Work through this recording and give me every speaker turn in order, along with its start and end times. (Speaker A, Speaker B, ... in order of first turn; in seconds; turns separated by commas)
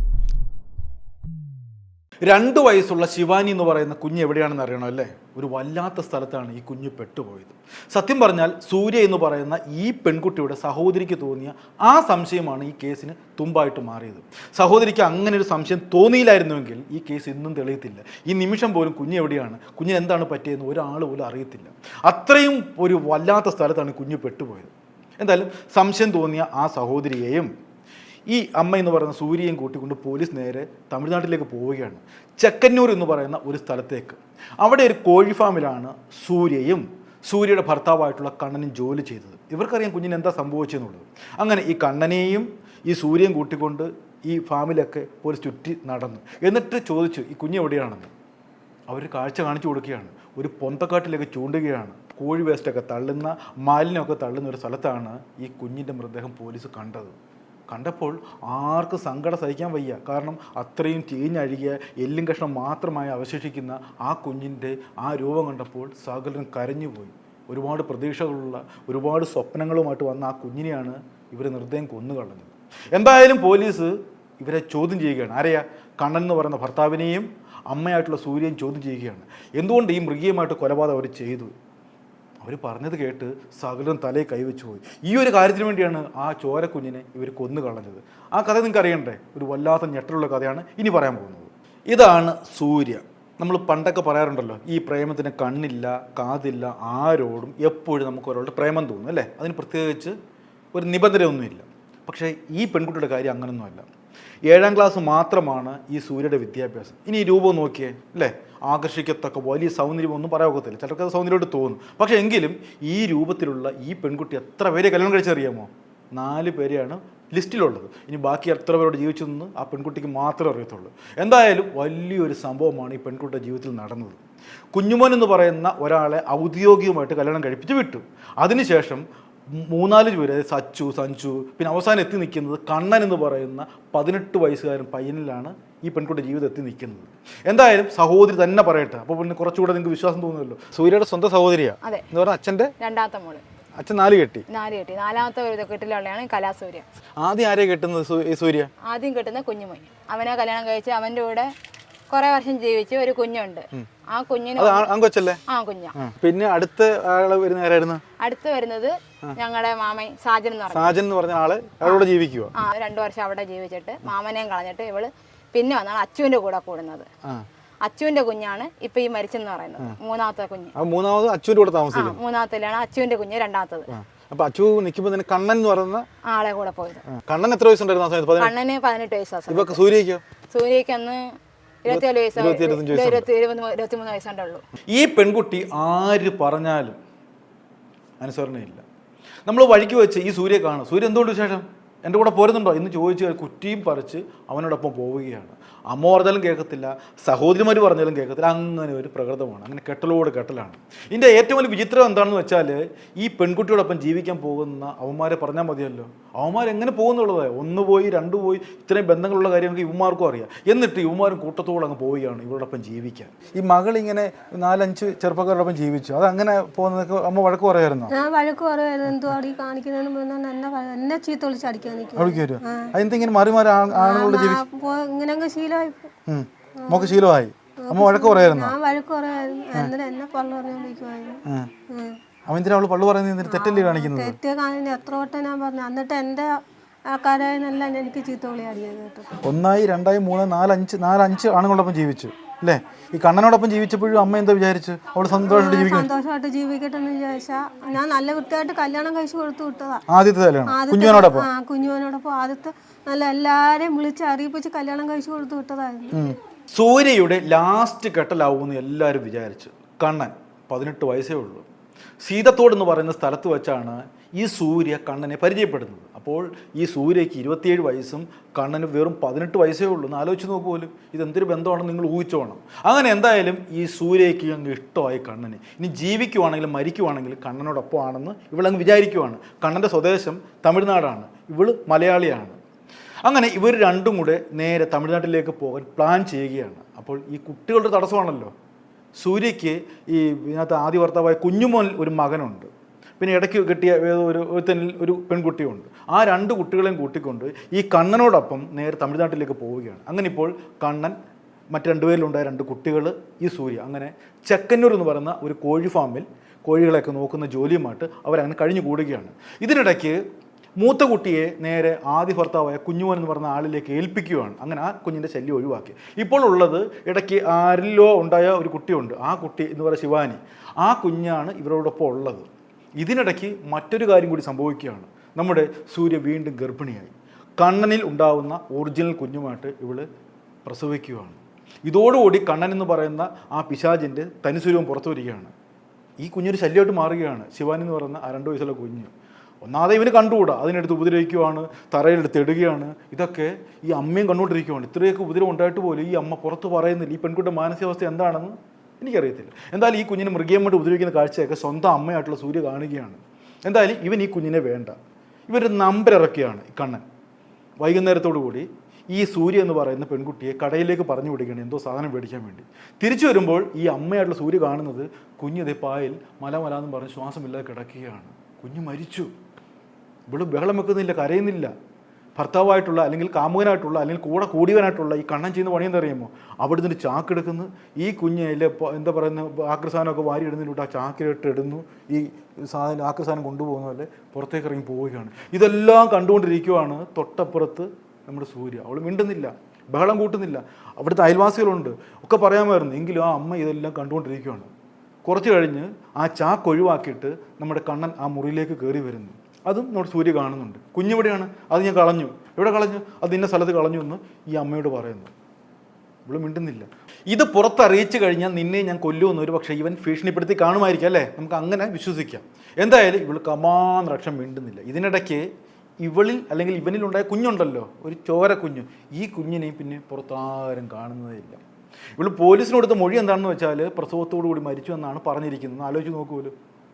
Speaker A: 2.2-27.5, Speaker A: 28.3-48.1, Speaker A: 48.9-57.1, Speaker A: 57.7-81.5, Speaker A: 82.4-100.2, Speaker A: 100.7-103.9, Speaker A: 104.5-124.2, Speaker A: 124.7-142.7, Speaker B: 142.8-143.4, Speaker A: 143.8-144.4, Speaker B: 144.5-146.8, Speaker A: 147.2-148.7, Speaker B: 148.8-151.5, Speaker B: 152.1-154.9, Speaker A: 154.6-155.4, Speaker B: 155.5-155.9, Speaker A: 155.9-158.0, Speaker B: 158.2-161.0, Speaker A: 160.7-162.5, Speaker B: 161.8-167.1, Speaker B: 167.8-170.7, Speaker A: 170.7-172.2, Speaker B: 171.9-173.9, Speaker A: 173.9-176.1, Speaker B: 176.3-177.0, Speaker A: 177.1-178.5, Speaker B: 178.3-179.8, Speaker A: 179.5-180.2, Speaker B: 180.5-181.2, Speaker B: 181.8-184.6, Speaker A: 181.9-183.3, Speaker A: 184.9-187.0, Speaker A: 188.2-188.8, Speaker A: 189.4-218.1, Speaker C: 218.1-222.9, Speaker A: 222.1-224.6, Speaker C: 223.9-226.1, Speaker A: 226.3-228.8, Speaker C: 226.8-227.1, Speaker C: 227.9-232.2, Speaker A: 231.4-231.7, Speaker A: 232.5-234.4, Speaker C: 233.4-239.3, Speaker A: 239.4-246.1, Speaker C: 245.4-250.0, Speaker A: 250.1-251.5, Speaker C: 250.7-256.2, Speaker A: 256.1-261.6, Speaker A: 262.2-282.6, Speaker A: 283.2-288.5, Speaker A: 289.1-301.1, Speaker A: 301.7-310.2, Speaker A: 310.8-330.1, Speaker A: 330.6-335.5, Speaker A: 336.2-339.1, Speaker A: 339.6-354.9, Speaker A: 355.5-357.0, Speaker A: 357.8-369.3, Speaker A: 370.3-371.7, Speaker A: 372.4-394.7, Speaker A: 395.2-405.3, Speaker A: 406.2-415.5, Speaker A: 416.0-421.6, Speaker A: 422.2-426.5